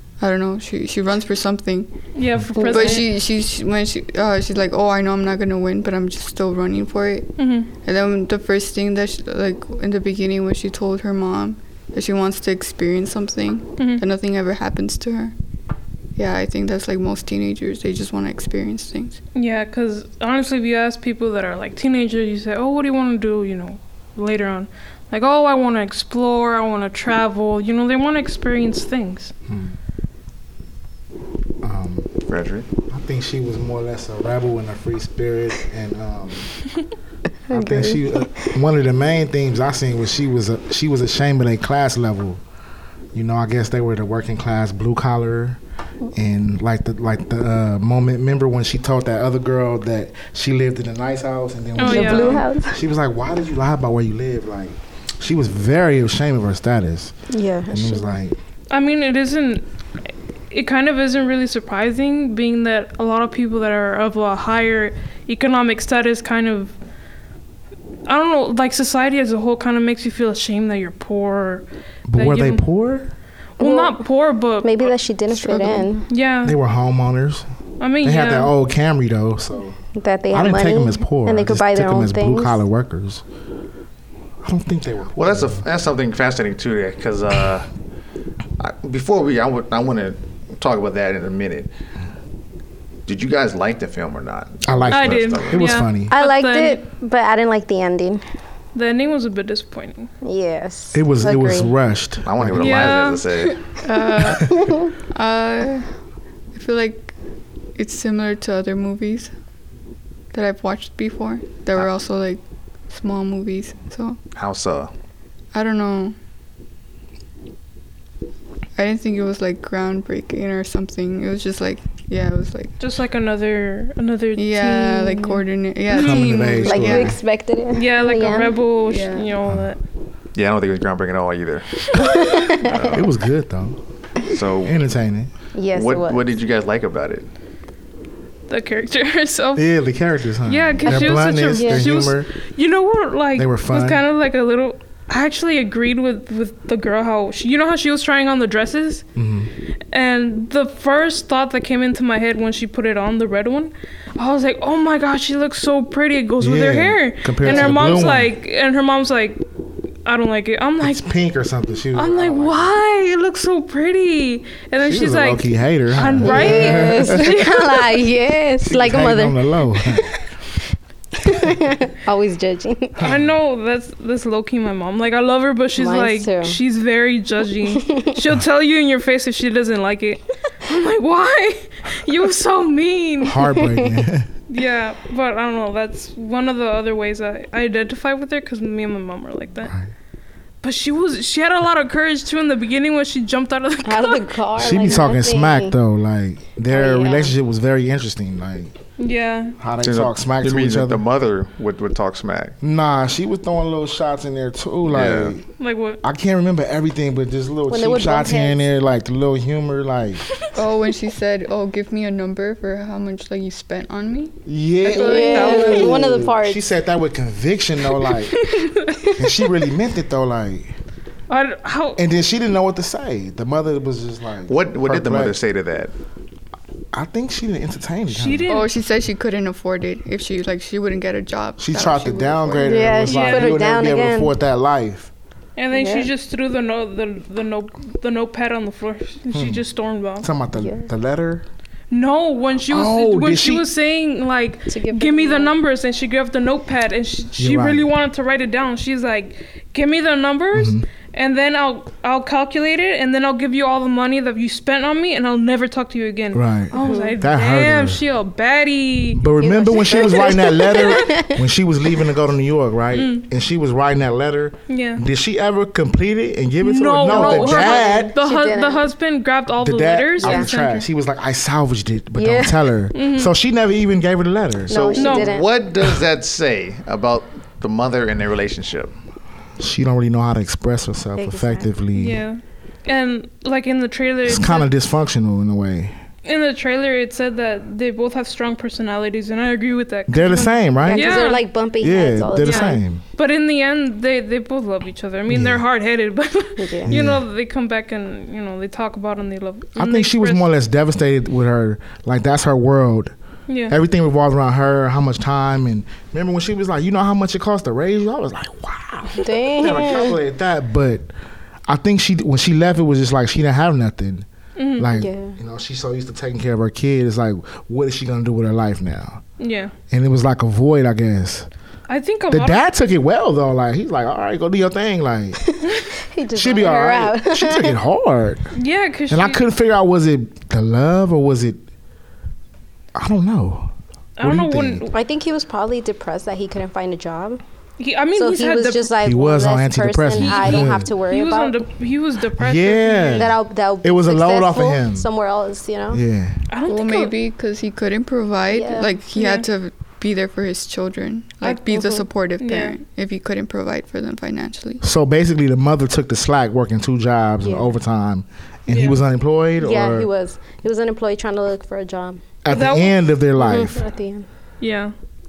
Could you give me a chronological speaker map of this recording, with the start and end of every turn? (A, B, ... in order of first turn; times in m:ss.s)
0:00.2-0:01.9 A
0:02.1-0:03.1 B
0:02.6-0:03.0 C
0:02.6-0:07.3 A
0:07.4-0:07.7 B
0:07.8-0:15.3 A
0:13.8-0:14.0 B
0:16.2-0:19.2 A
0:19.3-0:29.3 B
0:29.5-0:29.8 D
0:31.6-0:32.1 D
0:32.3-0:32.7 E
0:32.9-0:36.5 D
0:37.5-0:38.5 C
0:37.5-0:42.4 D
0:43.1-0:45.6 D
0:46.1-0:57.1 D
0:51.8-0:52.4 B
0:51.8-0:52.8 C
0:57.3-0:58.1 C
0:57.7-0:58.4 D
0:58.7-0:59.6 B
1:00.5-1:06.7 B
1:08.0-1:12.6 B
1:12.1-1:13.1 D
1:13.6-1:14.0 C
1:13.6-1:16.6 B
1:14.6-1:16.0 C
1:16.4-1:17.4 D
1:17.8-1:18.5 B
1:18.0-1:19.8 D
1:20.0-1:22.6 C
1:20.3-1:23.2 D
1:24.4-1:25.6 D
1:25.2-1:27.7 E
1:28.6-1:31.7 E
1:33.1-1:35.8 E
1:34.6-1:36.1 D
1:34.9-1:36.8 B
1:36.1-1:38.2 C
1:38.7-1:40.1 B
1:40.2-1:41.7 C
1:40.9-1:42.9 D
1:42.2-1:43.6 E
1:42.6-1:43.2 B
1:43.8-1:44.5 A
1:43.9-1:44.9 C
1:45.1-1:45.9 A
1:46.5-1:47.1 A
1:47.8-1:49.3 A
1:50.3-1:54.2 A
1:54.3-1:54.9 E
1:55.5-1:56.2 A
1:58.8-2:02.7 A
2:02.8-2:05.4 B
2:04.4-2:07.2 A
2:06.0-2:07.2 D
2:06.6-2:08.6 C
2:07.7-2:09.8 B
2:08.8-2:09.3 A
2:10.3-2:11.7 E
2:11.9-2:13.0 C
2:12.6-2:13.1 E
2:12.9-2:13.8 D
2:14.2-2:14.8 E
2:14.6-2:15.3 D
2:15.5-2:16.2 C
2:15.7-2:17.2 E
2:18.5-2:19.6 B
2:19.6-2:22.3 D
2:20.4-2:29.0 B
2:20.8-2:21.9 C
2:23.3-2:24.0 D
2:29.1-2:29.5 D
2:29.9-2:39.4 B
2:36.4-2:38.3 D
2:40.0-2:41.0 B
2:40.8-2:42.7 D
2:41.9-2:47.7 B
2:44.8-2:47.3 D
2:46.2-2:50.2 C
2:48.6-2:50.1 D
2:51.2-2:53.0 C
2:53.0-2:53.2 D
2:53.0-3:03.4 B
2:55.8-2:56.6 C
2:57.7-2:58.2 C
3:03.2-3:04.3 D
3:03.4-3:04.0 C
3:04.5-3:09.7 B
3:09.6-3:09.9 D
3:10.6-3:14.3 B
3:13.8-3:15.8 C
3:14.6-3:18.7 D
3:16.7-3:17.3 C
3:19.0-3:19.6 B
3:19.6-3:21.0 D
3:19.8-3:22.5 E
3:22.6-3:25.4 D
3:24.8-3:25.4 E
3:25.6-3:26.0 B
3:26.0-3:30.2 D
3:27.7-3:28.6 C
3:30.5-3:36.1 A
3:34.4-3:38.5 D
3:34.8-3:36.6 C
3:38.4-3:39.2 B
3:39.2-3:40.7 D
3:41.3-3:42.0 B
3:42.0-3:45.4 D
3:44.5-3:45.9 E
3:46.9-3:48.4 D
3:48.1-3:48.7 B
3:48.5-3:52.9 A
3:51.6-3:55.1 D
3:52.6-3:54.3 C
3:53.0-3:53.6 B
3:55.6-4:00.3 B
3:55.7-3:56.1 C
3:59.3-3:59.6 D
4:00.2-4:01.4 D
4:00.5-4:00.9 C
4:01.9-4:21.0 B
4:02.7-4:03.7 D
4:04.7-4:05.5 C
4:07.4-4:07.9 D
4:10.5-4:10.8 D
4:16.3-4:18.0 D
4:16.8-4:17.2 C
4:19.1-4:28.1 D
4:19.4-4:21.4 C
4:22.9-4:23.2 B
4:24.7-4:25.0 B
4:26.6-4:30.9 B
4:27.0-4:28.9 C
4:29.6-4:34.8 D
4:30.2-4:30.5 C
4:32.2-4:32.6 C
4:32.9-4:33.3 B
4:34.7-4:35.5 C
4:34.7-4:38.9 E
4:35.0-4:35.3 B
4:39.6-4:42.2 D
4:41.2-4:41.7 C
4:41.9-4:44.7 B
4:44.2-4:46.0 D
4:46.2-4:51.4 B
4:50.1-4:51.2 D
4:50.8-4:52.8 C
4:51.8-4:53.0 D
4:52.4-5:00.5 B
4:55.3-4:55.6 D
4:56.6-4:56.9 C
4:56.9-4:57.2 D
4:59.8-5:03.1 D
5:03.5-5:03.8 B
5:03.7-5:11.1 D
5:09.1-5:10.2 C
5:11.7-5:14.2 D
5:14.6-5:14.9 B
5:14.8-5:19.2 D
5:14.9-5:15.4 C
5:19.4-5:19.7 B
5:19.9-5:21.5 D
5:21.9-5:22.6 B
5:22.3-5:25.4 D
5:25.5-5:27.8 C
5:26.3-5:28.5 D
5:28.5-5:29.4 B
5:29.1-5:31.6 D
5:32.9-5:34.8 D
5:34.2-5:34.9 B
5:34.9-5:37.4 C
5:37.8-5:38.9 B
5:38.1-5:41.6 C
5:39.0-5:40.9 D
5:40.1-5:43.3 B
5:42.4-5:45.1 D
5:43.1-5:46.0 C
5:45.9-5:46.4 D
5:46.5-5:47.1 B
5:46.7-5:54.8 A
5:48.5-5:48.9 C
5:49.1-5:49.5 B
5:51.4-5:52.7 B
5:54.8-6:00.1 D
5:57.4-5:57.7 C
5:58.7-5:59.0 B
5:59.6-6:02.2 C
6:02.4-6:03.8 D
6:02.5-6:03.0 B
6:03.4-6:04.3 C
6:04.6-6:04.9 B